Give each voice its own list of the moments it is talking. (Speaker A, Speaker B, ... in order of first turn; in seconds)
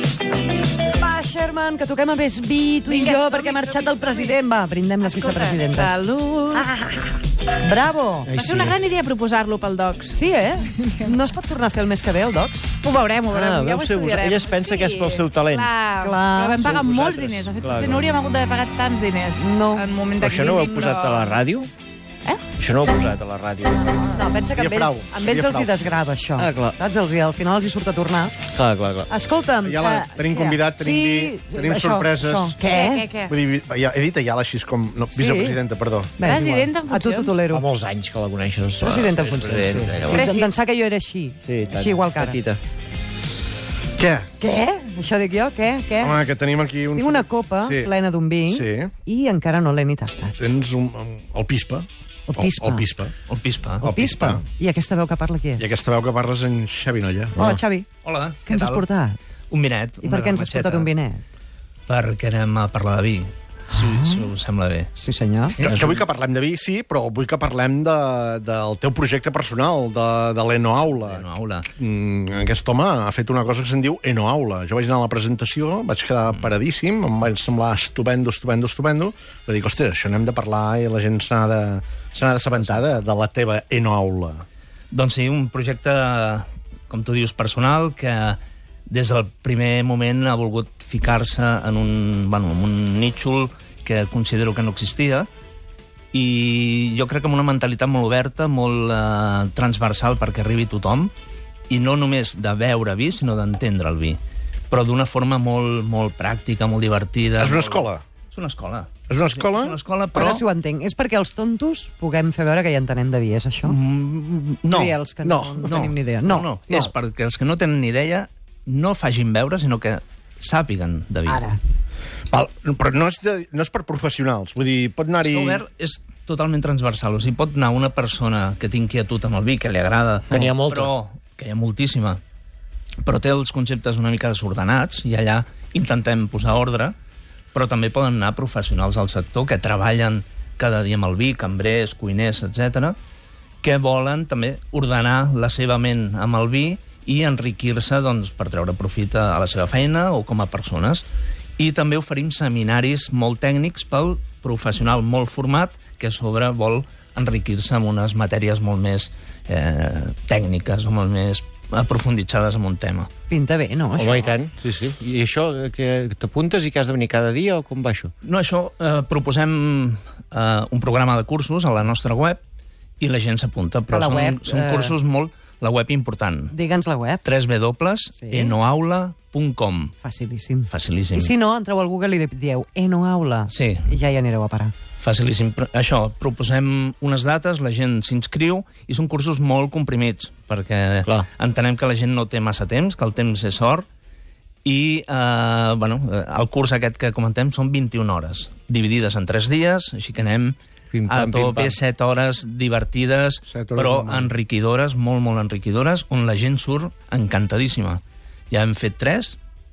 Speaker A: 0.9-6.0, 6.5-8.3, 10.1-12.8, 16.0-16.7, 19.4-19.8, 24.1-28.4, 29.1-33.1, 35.1-35.6, 36.2-37.7, 38.8-42.4, 44.4-46.2, 47.0-50.4, 52.3-52.9, 53.8-55.8, 57.4-57.9, 58.5-59.2, 60.0-61.2, 63.8-64.3, 65.0-65.6, 110.1-113.8, 114.7-116.9, 121.3-121.6, 163.3-164.3, 173.9-175.0, 176.5-177.2, 178.2-178.5, 180.0-184.7
Speaker B: 2.9-4.4, 5.0-6.7, 8.3-10.2, 10.7-11.1, 12.8-21.4, 32.6-33.3, 36.2-37.4, 40.1-40.5
Speaker C: 8.3-8.8, 13.3-15.8, 16.6-18.1, 20.2-21.7, 22.6-24.0, 26.4-26.8, 28.5-29.1, 37.5-40.3, 41.5-42.6, 130.3-130.9, 164.0-168.1, 200.9-201.8
Speaker D: 24.6-25.8, 29.6-32.6, 33.3-36.1, 44.0-44.3, 46.0-47.9, 48.5-48.9, 50.4-53.1, 53.8-54.4, 55.6-57.4, 65.6-84.5, 107.4-108.0, 109.1-109.8, 115.2-115.7, 122.3-125.6, 203.5-204.3
Speaker E: 53.3-53.9, 58.0-58.9, 59.5-60.9, 61.9-64.9, 65.6-66.0, 70.9-71.7, 82.5-82.8, 84.9-95.3, 96.1-101.1, 101.7-104.2, 104.7-110.4, 113.7-115.0, 115.6-121.4, 125.2-132.2, 133.0-136.9, 137.5-143.0, 143.6-151.1, 151.6-163.1, 168.2-172.4, 173.0-176.6, 177.2-179.9, 180.7-181.3, 183.5-183.9, 185.0-193.9, 194.7-209.4